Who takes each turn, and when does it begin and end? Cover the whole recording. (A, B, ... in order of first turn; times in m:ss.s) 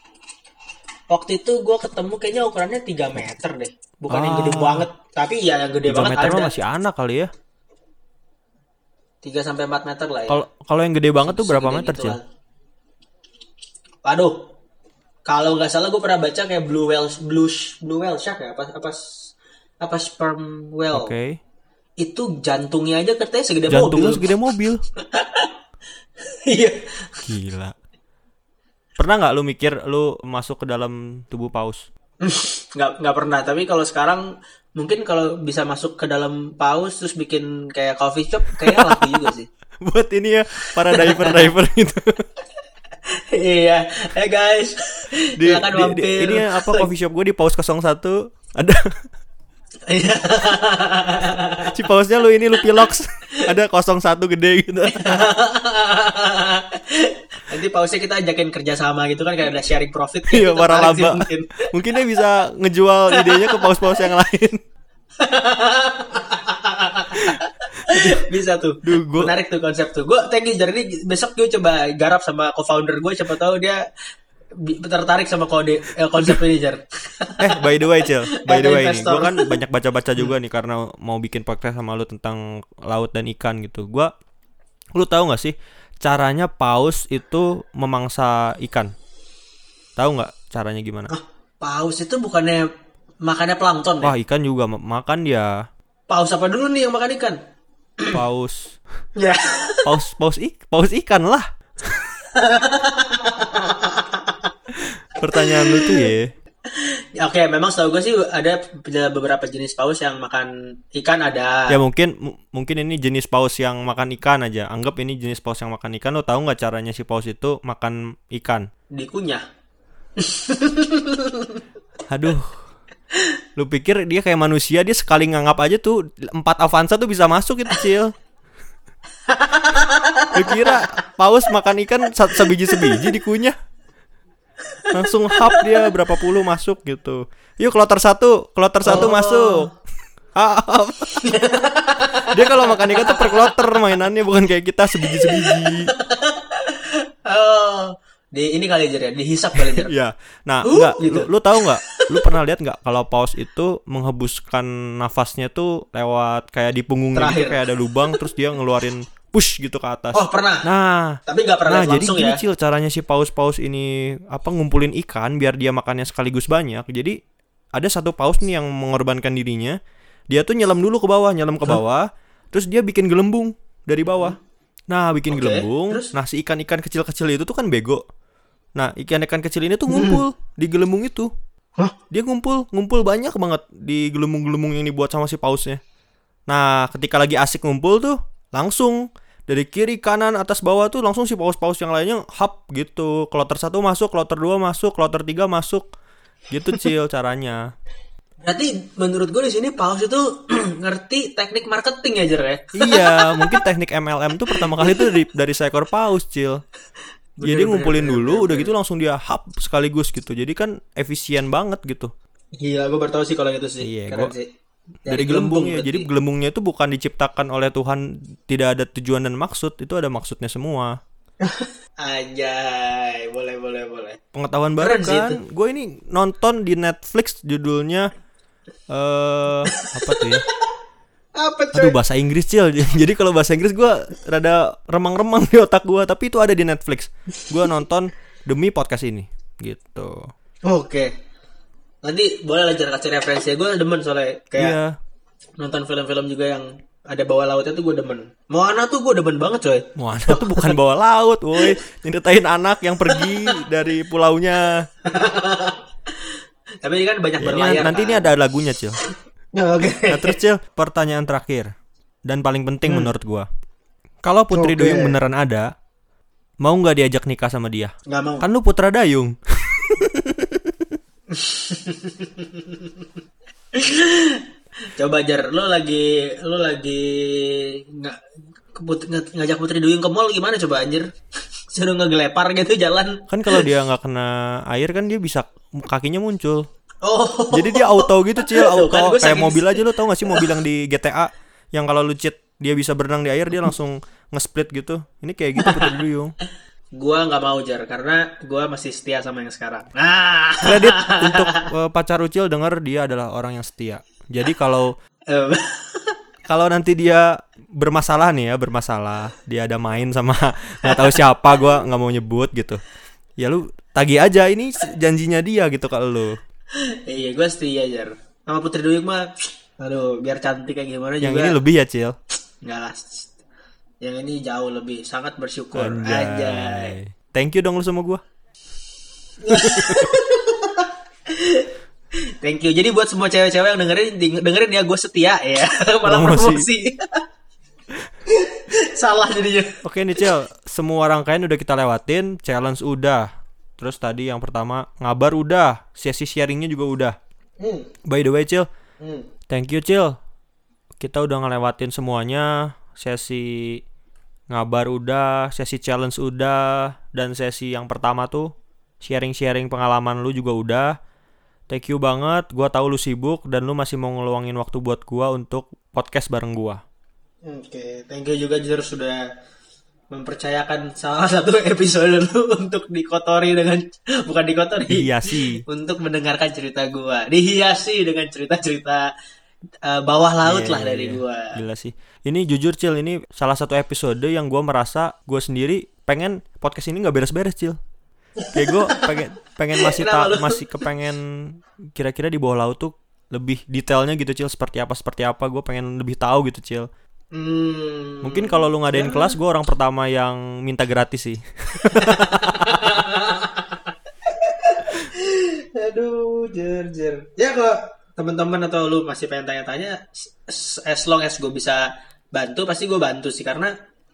0:01.1-0:06.6 A
0:04.1-0:04.9 B
0:05.9-0:07.3 B
0:09.2-0:10.4 A
0:10.3-0:12.2 B
0:11.2-0:12.2 A
0:14.0-0:14.5 A
0:15.3-0:19.0 A
0:19.8-0:21.1 A
0:20.9-0:21.4 B
0:22.0-0:24.3 A
0:23.7-0:24.8 B
0:25.0-0:25.5 A
0:26.3-0:27.2 A
0:27.3-0:27.7 B
0:29.0-0:31.9 B
0:32.2-0:39.5 A
0:38.6-0:39.2 B
0:39.8-0:42.3 B
0:40.6-0:41.5 A
0:43.1-0:46.9 A
0:45.4-0:49.0 B
0:49.9-0:51.7 A
0:51.7-0:55.3 B
0:54.9-1:01.7 A
1:00.3-1:04.6 B
1:03.1-1:03.8 A
1:05.2-1:13.9 A
1:07.2-1:08.3 B
1:08.8-1:09.3 B
1:14.6-1:17.6 A
1:17.4-1:24.1 B
1:18.3-1:19.6 A
1:24.9-1:28.9 B
1:30.0-1:31.1 B
1:31.1-1:32.7 A
1:33.2-1:34.1 A
1:34.0-1:35.6 B
1:36.1-1:37.4 A
1:38.1-1:38.8 B
1:39.2-1:39.9 A
1:39.8-1:42.1 B
1:42.3-1:44.5 A
1:44.7-1:46.3 B
1:45.3-1:46.0 A
1:46.7-1:51.8 A
1:51.7-1:58.7 B
1:58.9-1:59.4 A
2:00.2-2:01.6 A
2:02.1-2:02.6 B
2:03.6-2:08.1 B
2:09.3-2:10.9 A
2:10.3-2:13.6 B
2:14.7-2:15.9 A
2:14.9-2:19.7 B
2:18.8-2:19.7 A
2:20.3-2:21.4 B
2:21.2-2:23.7 A
2:22.3-2:25.9 B
2:25.0-2:29.9 A
2:29.6-2:47.2 B
2:30.6-2:32.3 A
2:37.1-2:38.2 A
2:40.1-2:40.6 A
2:41.3-2:42.4 A
2:47.7-2:49.8 B
2:50.3-2:54.4 B
2:54.9-2:58.0 B
2:55.3-2:56.1 A
2:58.8-3:01.3 B
2:59.9-3:00.2 A
3:02.1-3:05.8 B
3:06.5-3:15.9 B
3:16.5-3:17.6 B
3:18.4-3:23.6 A
3:22.8-3:26.6 B
3:24.6-3:25.1 A
3:27.4-3:28.7 A
3:27.4-3:32.1 B
3:32.6-3:34.5 A
3:33.8-3:34.3 B
3:35.0-3:36.1 A
3:35.1-3:41.0 B
3:41.4-3:44.2 A
3:44.3-3:48.1 B
3:44.8-3:45.4 A
3:48.9-3:50.4 B
3:49.7-3:50.3 A
3:51.4-3:52.0 A
3:51.7-4:00.3 B
4:00.6-4:01.1 A
4:02.0-4:04.8 A
4:04.6-4:05.0 B
4:05.6-4:10.7 A
4:10.0-4:14.9 B
4:13.1-4:13.6 A
4:15.0-4:16.3 A
4:16.8-4:18.3 A
4:17.4-4:19.0 B
4:19.5-4:20.4 A
4:20.1-4:21.7 B
4:22.2-4:23.5 B
4:24.2-4:25.7 B
4:24.5-4:25.2 A
4:26.6-4:30.8 B
4:28.1-4:28.5 A
4:31.3-4:33.0 A
4:33.7-4:34.4 A
4:35.0-4:38.2 A
4:38.7-4:41.1 A
4:41.7-4:43.7 A
4:43.3-4:46.7 B
4:47.0-4:50.5 A
4:47.5-4:56.3 B
4:55.6-4:55.9 A
4:56.9-5:01.7 A
5:00.6-5:04.9 B
5:05.3-5:06.1 A
5:06.5-5:12.8 B
5:10.8-5:11.2 A
5:13.4-5:16.4 B
5:16.8-5:21.6 A
5:21.2-5:22.2 B
5:22.6-5:23.3 A
5:24.0-5:27.0 A
5:25.7-5:28.2 B
5:29.4-5:31.7 A
5:29.5-5:30.1 B
5:32.4-5:37.2 A
5:36.0-5:36.7 B
5:38.3-5:39.8 A
5:39.8-5:47.2 B
5:47.6-5:47.9 A
5:48.0-5:48.7 B
5:49.0-5:49.3 A
5:49.5-5:50.2 B
5:51.0-5:53.8 B
5:54.5-6:01.0 B
6:01.7-6:06.8 B
6:07.4-6:09.3 A
6:10.1-6:19.1 A
6:14.9-6:15.6 B
6:19.8-6:21.6 A
6:20.4-6:27.8 B
6:28.4-6:29.2 A
6:28.5-6:36.9 B
6:29.8-6:30.6 A
6:37.3-6:39.4 A
6:38.2-6:43.0 B
6:41.9-6:53.7 A